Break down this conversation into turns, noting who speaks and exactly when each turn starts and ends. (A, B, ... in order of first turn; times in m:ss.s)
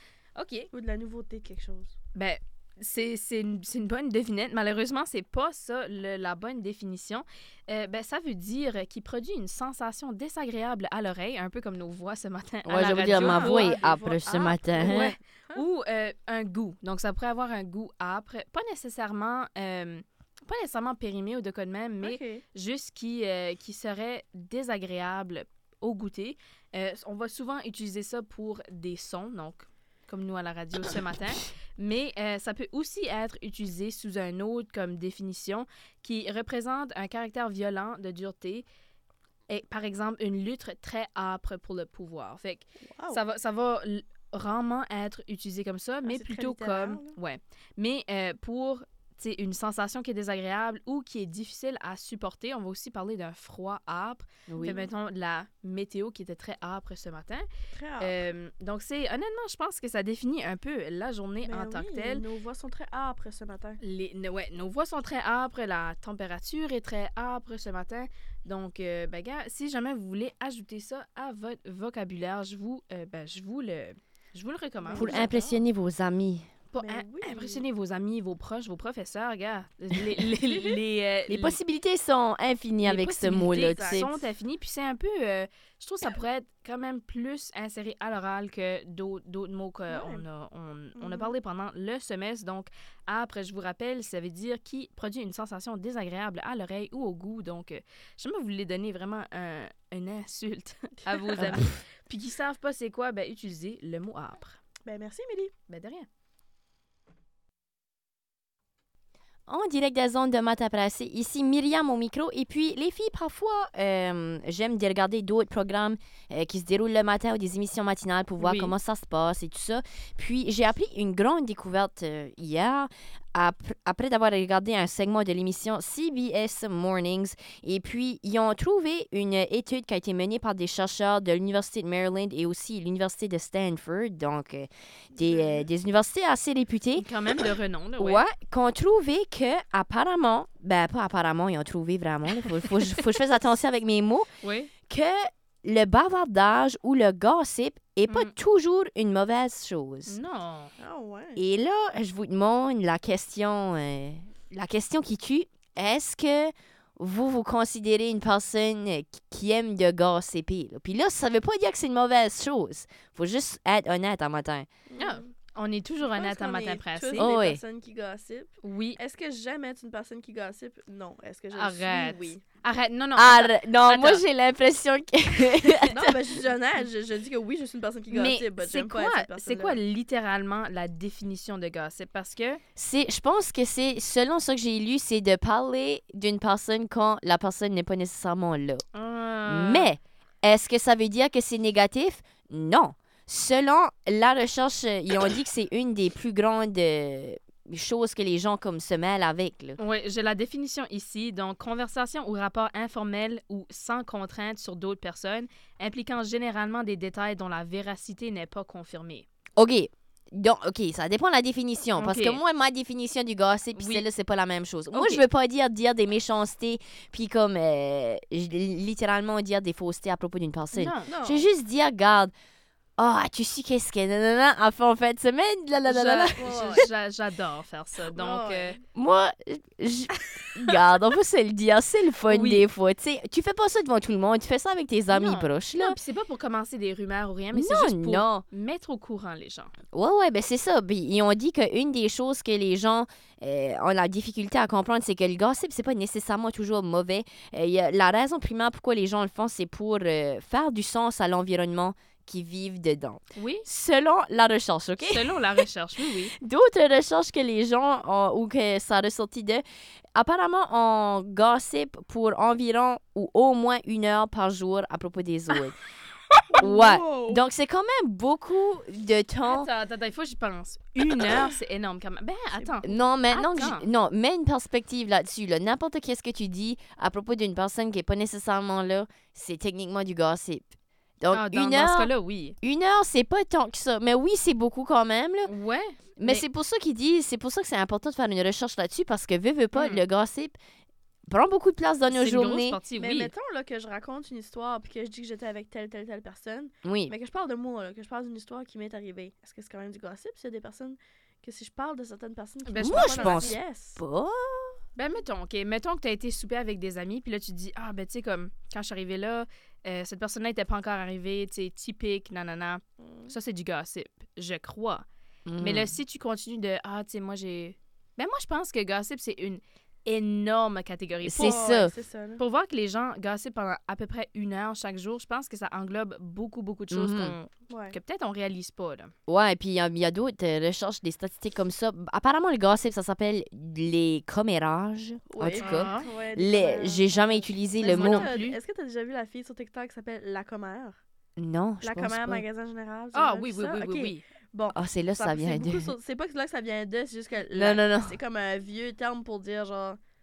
0:00.3-0:00.7 A
0:00.7-0:01.9 B
0:02.1-0:13.8 A
0:12.6-0:15.2 C
0:13.0-0:15.6 B
0:14.8-0:38.6 A
0:22.0-0:22.4 B
0:39.5-0:57.5 A
0:42.8-0:43.2 B
0:46.0-0:47.2 B
0:54.5-0:54.8 C
0:54.6-0:54.9 B
0:57.7-0:58.2 B
0:58.0-1:02.2 A
1:01.4-1:03.8 B
1:03.8-1:15.6 A
1:14.8-1:15.3 B
1:14.9-1:16.5 C
1:16.7-1:21.6 A
1:16.8-1:17.6 B
1:21.3-1:24.2 C
1:22.8-1:44.6 A
1:23.4-1:24.1 B
1:29.9-1:30.2 B
1:31.0-1:31.3 B
1:41.4-1:41.8 C
1:44.8-1:45.5 B
1:45.7-1:46.1 A
1:49.5-2:17.1 C
1:58.4-1:58.7 A
2:15.2-2:15.6 B
2:17.0-2:18.2 A
2:18.0-2:24.3 C
2:24.4-2:24.7 A
2:24.9-2:30.2 C
2:28.1-2:28.3 A
2:30.0-2:30.7 A
2:30.8-2:31.4 B
2:31.4-2:44.7 C
2:44.9-2:45.3 B
2:45.0-2:47.3 A
2:46.0-2:52.4 B
2:47.2-2:47.6 C
2:48.6-2:49.0 A
2:51.5-2:54.2 A
2:53.1-2:56.4 C
2:55.8-2:59.8 B
2:58.1-3:02.6 A
3:02.8-3:08.8 C
3:08.9-3:09.9 A
3:09.4-3:19.8 C
3:19.8-3:29.3 A
3:29.6-3:42.3 C
3:32.0-3:32.4 A
3:33.7-3:34.0 A
3:34.9-3:35.2 A
3:40.7-3:41.1 A
3:41.1-3:41.5 B
3:43.0-3:46.8 C
3:45.8-3:48.8 A
3:46.4-3:46.9 B
3:48.1-3:48.8 B
3:48.9-3:56.0 C
3:52.3-3:52.6 A
3:55.1-3:59.7 A
3:57.5-3:58.4 C
3:59.9-4:15.6 C
4:13.4-4:13.7 A
4:15.0-4:16.3 A
4:16.3-4:19.6 C
4:20.1-4:25.8 C
4:26.5-4:27.4 B
4:26.6-4:29.7 C
4:29.4-4:33.8 A
4:32.8-4:45.5 C
4:41.3-4:42.6 A
4:45.4-4:46.4 A
4:46.2-4:50.6 C
4:49.7-4:50.0 A
4:51.3-4:52.8 C
4:52.1-4:53.3 A
4:53.0-5:04.0 B
4:56.8-4:57.1 C
5:02.6-5:03.5 A
5:02.8-5:04.8 C
5:05.0-5:15.0 A
5:13.0-5:13.3 B
5:15.4-5:16.0 C
5:15.6-5:21.7 A
5:21.2-5:21.9 C
5:21.3-5:22.4 B
5:22.4-5:29.1 A
5:26.9-5:27.4 C
5:27.7-5:28.0 B
5:29.3-5:38.3 C
5:35.3-5:41.0 B
5:35.6-5:36.1 A
5:37.8-5:38.6 A
5:41.4-5:42.4 C
5:41.8-5:50.0 B
5:43.1-5:44.2 A
5:44.7-5:45.9 C
5:47.5-5:48.2 C